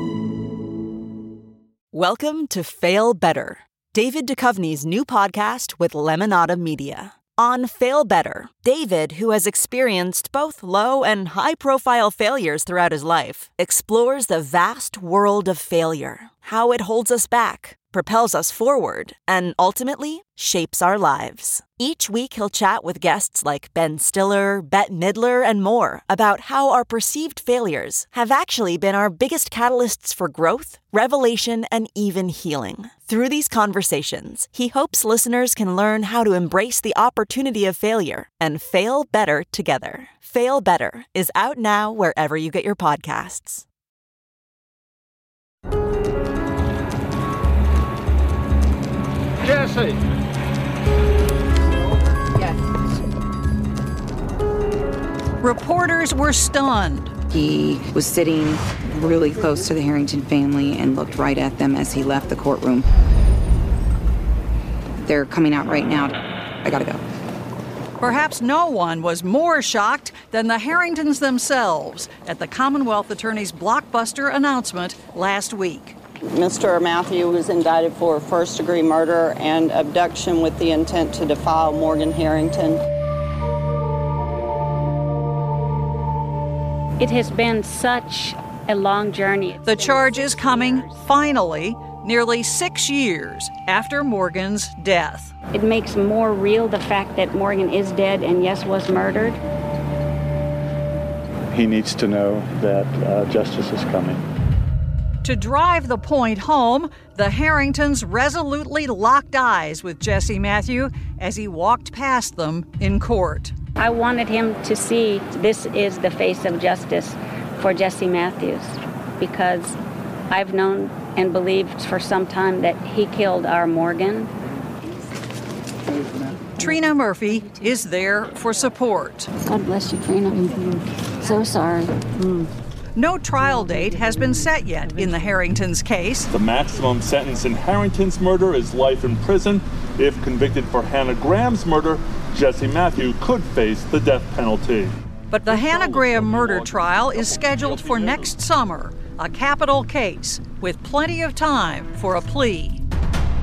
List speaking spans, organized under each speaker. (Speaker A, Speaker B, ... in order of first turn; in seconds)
Speaker A: 1.9-43.6
Speaker B: 52.4-52.6, 57.3-62.9, 65.0-67.0
Speaker C: 55.4-57.1, 68.0-76.0, 89.7-95.3, 105.2-113.5, 126.6-129.3, 133.0-136.3, 145.3-152.8
Speaker D: 76.3-82.8
Speaker E: 87.0-91.0, 95.5-99.4, 113.8-119.8, 120.3-124.3, 129.4-132.5
Speaker F: 101.5-104.2
Speaker G: 136.3-144.9